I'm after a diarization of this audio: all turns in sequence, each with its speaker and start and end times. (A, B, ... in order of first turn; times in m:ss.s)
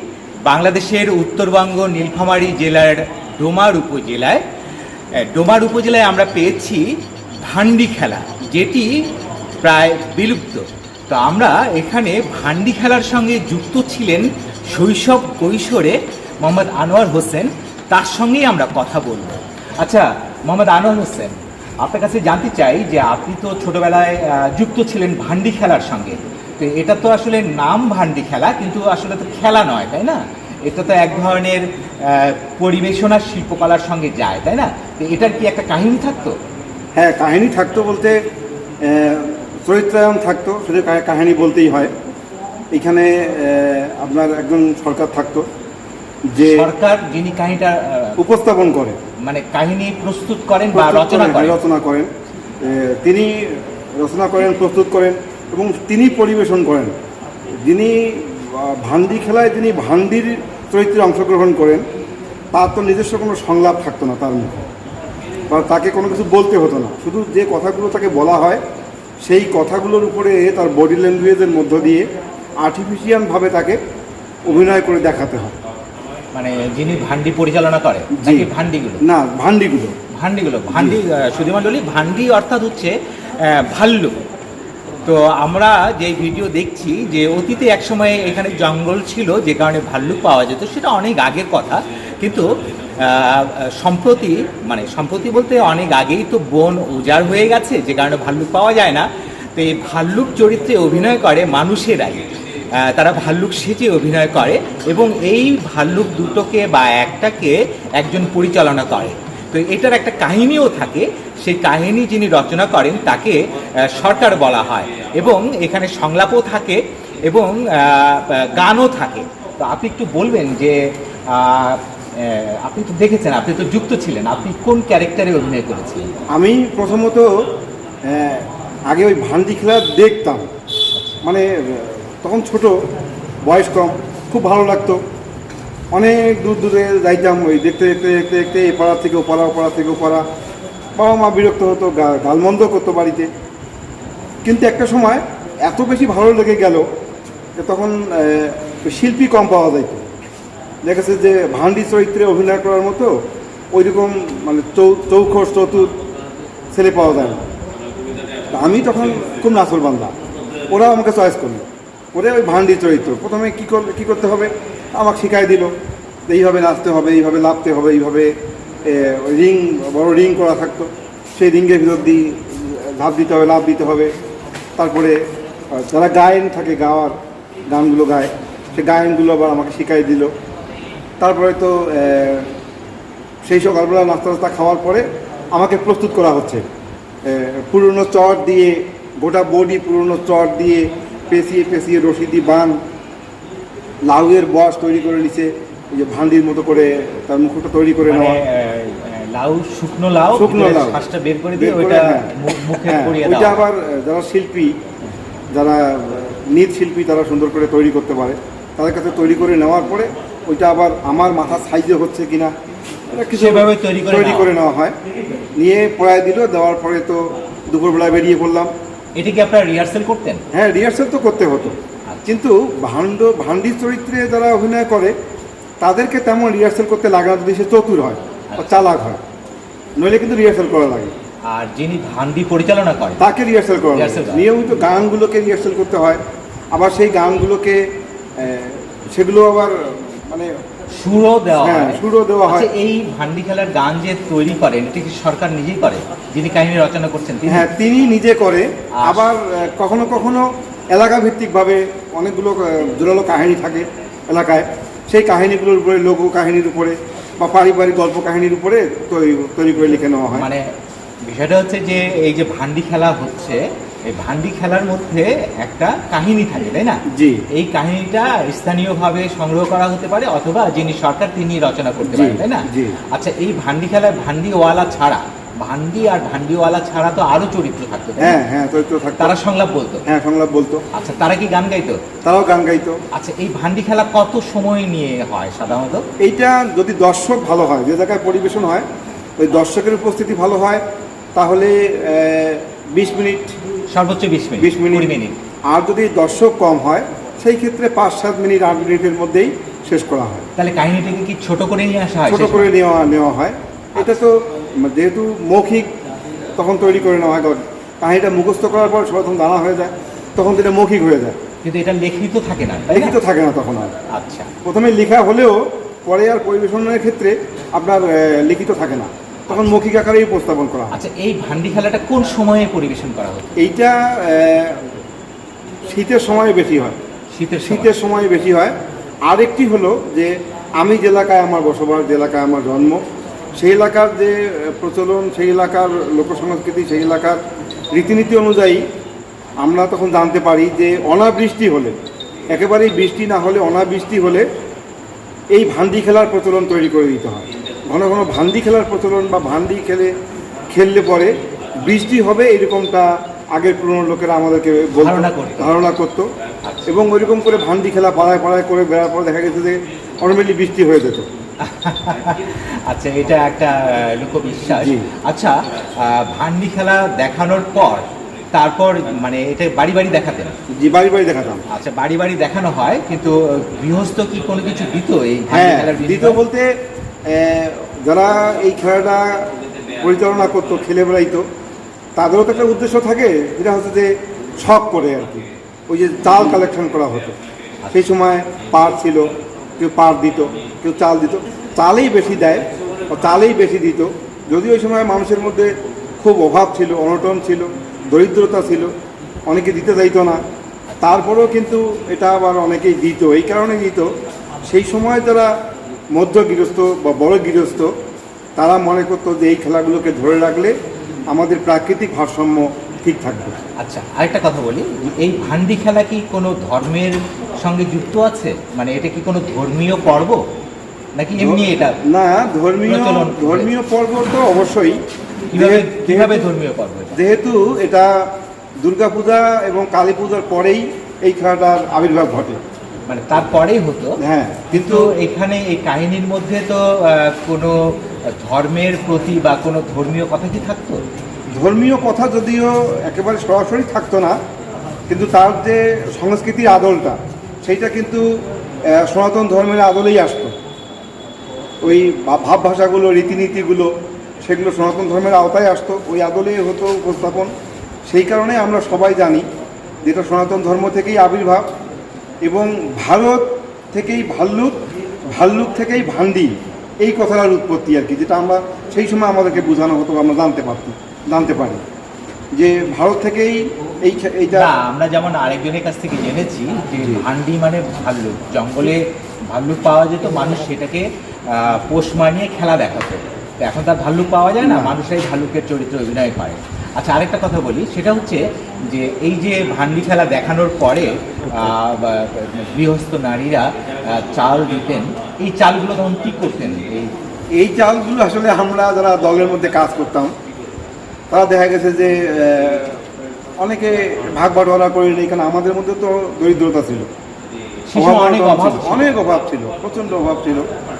0:00.4-0:04.4 A
0:05.2-0:06.8 A
0:07.4-0:08.9 A
0:09.6-0:36.3 A
0:36.9-0:38.2 B
0:38.8-0:41.9 B
0:42.7-0:45.4 B
0:46.3-0:46.7 B
0:46.4-0:48.2 A
0:48.2-0:49.0 B
0:49.2-0:51.6 A
0:50.7-0:52.1 B
0:52.6-0:56.9 B
0:57.6-1:01.8 B
1:02.5-1:04.5 B
1:05.5-1:08.6 B
1:09.2-1:12.0 B
1:12.6-1:13.8 B
1:14.4-1:15.5 B
1:16.3-1:19.0 A
1:18.2-1:18.5 B
1:19.0-1:19.9 B
1:20.2-1:24.1 A
1:20.7-1:21.0 B
1:25.0-1:32.4 A
1:33.0-1:42.2 A
1:42.8-1:53.4 A
1:53.9-2:00.8 A
2:01.3-2:06.1 A
2:06.3-2:07.5 B
2:08.0-2:10.4 B
2:10.9-2:11.2 A
2:11.2-2:12.8 B
2:13.4-2:15.0 B
2:15.9-2:20.2 B
2:21.0-2:23.3 B
2:24.4-2:26.8 B
2:27.6-2:30.0 B
2:30.8-2:33.1 B
2:33.7-2:35.9 B
2:36.7-2:37.4 B
2:38.5-2:40.1 B
2:40.7-2:45.7 B
2:46.3-2:48.3 B
2:48.8-2:54.1 B
2:54.8-2:55.2 B
2:55.7-2:57.2 B
2:57.7-3:00.3 B
3:01.2-3:02.5 B
3:03.4-3:06.6 B
3:07.2-3:12.8 B
3:14.1-3:18.4 B
3:18.1-3:23.7 A
3:20.3-3:21.0 B
3:21.6-3:22.3 B
3:22.8-3:24.7 B
3:25.5-3:32.5 B
3:33.1-3:34.9 B
3:33.3-3:34.5 A
3:35.6-3:38.7 B
3:39.2-3:40.4 A
3:40.5-3:45.1 B
3:45.8-3:49.2 B
3:48.5-3:49.0 A
3:50.0-3:51.1 B
3:51.5-3:53.2 A
3:53.2-3:56.2 B
3:53.9-3:54.4 A
3:56.7-3:57.8 B
3:58.4-4:00.5 B
4:01.0-4:07.6 A
4:01.5-4:02.7 B
4:07.4-4:20.5 B
4:09.0-4:09.3 A
4:20.3-4:20.6 A
4:21.2-4:27.0 A
4:27.1-4:27.4 B
4:27.5-4:38.4 A
4:32.1-4:33.0 B
4:38.2-4:39.3 B
4:39.2-4:40.0 A
4:40.0-4:40.8 B
4:40.9-4:42.0 A
4:42.2-4:43.0 B
4:43.1-4:46.0 A
4:46.2-4:48.8 B
4:49.4-4:50.8 B
4:51.3-4:53.6 B
4:53.9-4:55.4 A
4:54.6-4:55.1 B
4:55.7-5:00.5 B
5:00.6-5:02.7 A
5:02.3-5:05.9 B
5:06.6-5:11.4 B
5:11.6-5:13.2 A
5:12.9-5:13.9 B
5:14.1-5:14.5 A
5:14.6-5:21.0 B
5:19.5-5:19.8 A
5:20.9-5:23.6 A
5:23.6-5:24.8 B
5:25.9-5:27.0 B
5:27.3-5:27.9 A
5:27.6-5:28.7 B
5:29.2-5:33.0 B
5:33.6-5:37.4 B
5:37.9-5:38.8 B
5:39.6-5:41.9 B
5:42.5-5:44.5 B
5:45.5-5:50.1 B
5:50.7-5:56.3 B
5:55.0-5:55.8 A
5:56.6-5:56.9 A
5:56.9-6:01.3 B
6:01.6-6:08.0 A
6:04.7-6:05.1 B
6:08.5-6:10.5 A
6:10.8-6:11.6 B
6:11.7-6:16.4 A
6:15.5-6:16.7 B
6:17.3-6:19.4 B
6:20.0-6:21.4 B
6:22.2-6:27.4 B
6:27.9-6:38.9 B
6:39.5-6:40.4 B
6:41.0-6:44.1 B
6:44.7-6:45.5 B
6:46.1-6:47.9 B
6:48.6-6:50.7 B
6:51.3-6:53.5 B
6:53.8-7:00.4 A
7:01.2-7:02.0 A
7:01.4-7:05.0 B
7:02.8-7:03.7 A
7:05.5-7:07.2 A
7:05.5-7:06.5 B
7:07.2-7:08.1 B
7:08.8-7:12.6 B
7:13.1-7:14.2 A
7:14.2-7:15.1 B
7:14.7-7:17.7 A
7:18.3-7:21.0 A
7:21.5-7:24.4 B
7:25.1-7:28.2 B
7:28.9-7:30.5 B
7:31.8-7:33.9 B
7:34.4-7:37.5 B
7:38.1-7:39.4 B
7:40.0-7:41.6 B
7:42.4-7:44.8 B
7:45.3-7:51.8 B
7:52.5-7:54.7 B
7:54.5-8:17.1 A
7:57.0-7:57.2 B
8:04.6-8:05.0 B
8:17.6-8:20.3 B
8:21.3-8:23.0 B
8:23.6-8:27.1 B
8:27.9-8:29.2 A
8:27.9-8:30.7 B